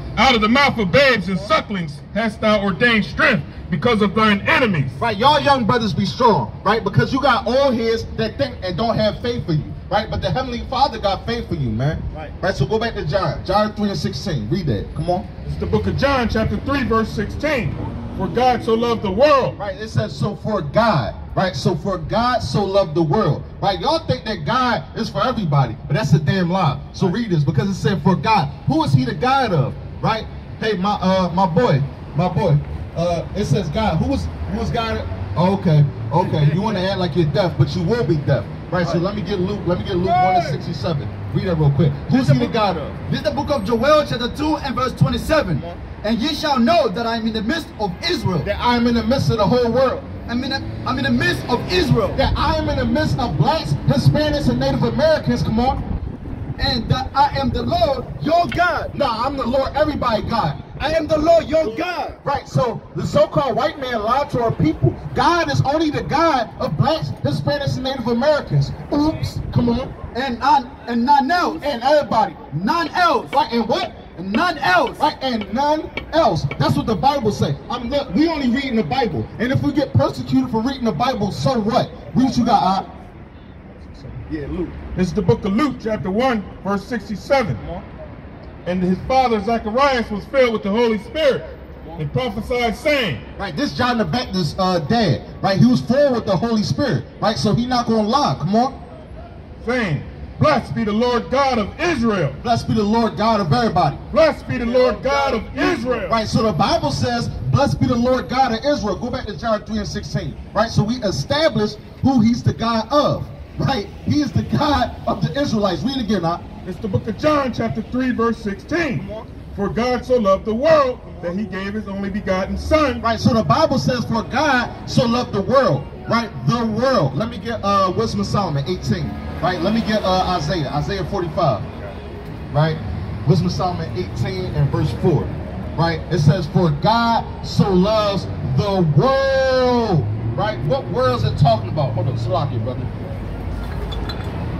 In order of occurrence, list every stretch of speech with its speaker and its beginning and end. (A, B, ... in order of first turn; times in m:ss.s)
0:00.2-0:05.0 A
0:05.0-0:15.2 B
0:15.4-0:19.6 A
0:19.5-0:43.0 B
0:42.1-0:42.6 C
0:43.1-0:48.5 C
0:45.5-0:45.8 B
0:48.4-0:50.1 B
0:50.3-0:52.2 C
0:52.2-0:55.8 B
0:56.6-0:58.9 C
0:58.9-1:00.6 B
1:00.8-1:02.2 C
1:02.2-1:09.9 B
1:10.1-1:11.6 C
1:11.6-1:12.4 B
1:12.5-1:13.4 C
1:13.3-1:14.0 B
1:14.2-1:15.0 C
1:15.0-1:22.9 B
1:23.8-1:24.2 A
1:24.3-1:24.8 B
1:24.9-1:27.6 A
1:27.6-1:27.8 B
1:28.6-1:33.2 A
1:33.4-1:38.8 B
1:39.6-1:42.4 A
1:42.4-1:44.0 B
1:44.1-1:46.2 A
1:45.2-1:56.4 B
1:56.6-2:03.0 A
1:58.9-1:59.4 B
2:03.0-2:11.6 B
2:12.5-2:22.9 B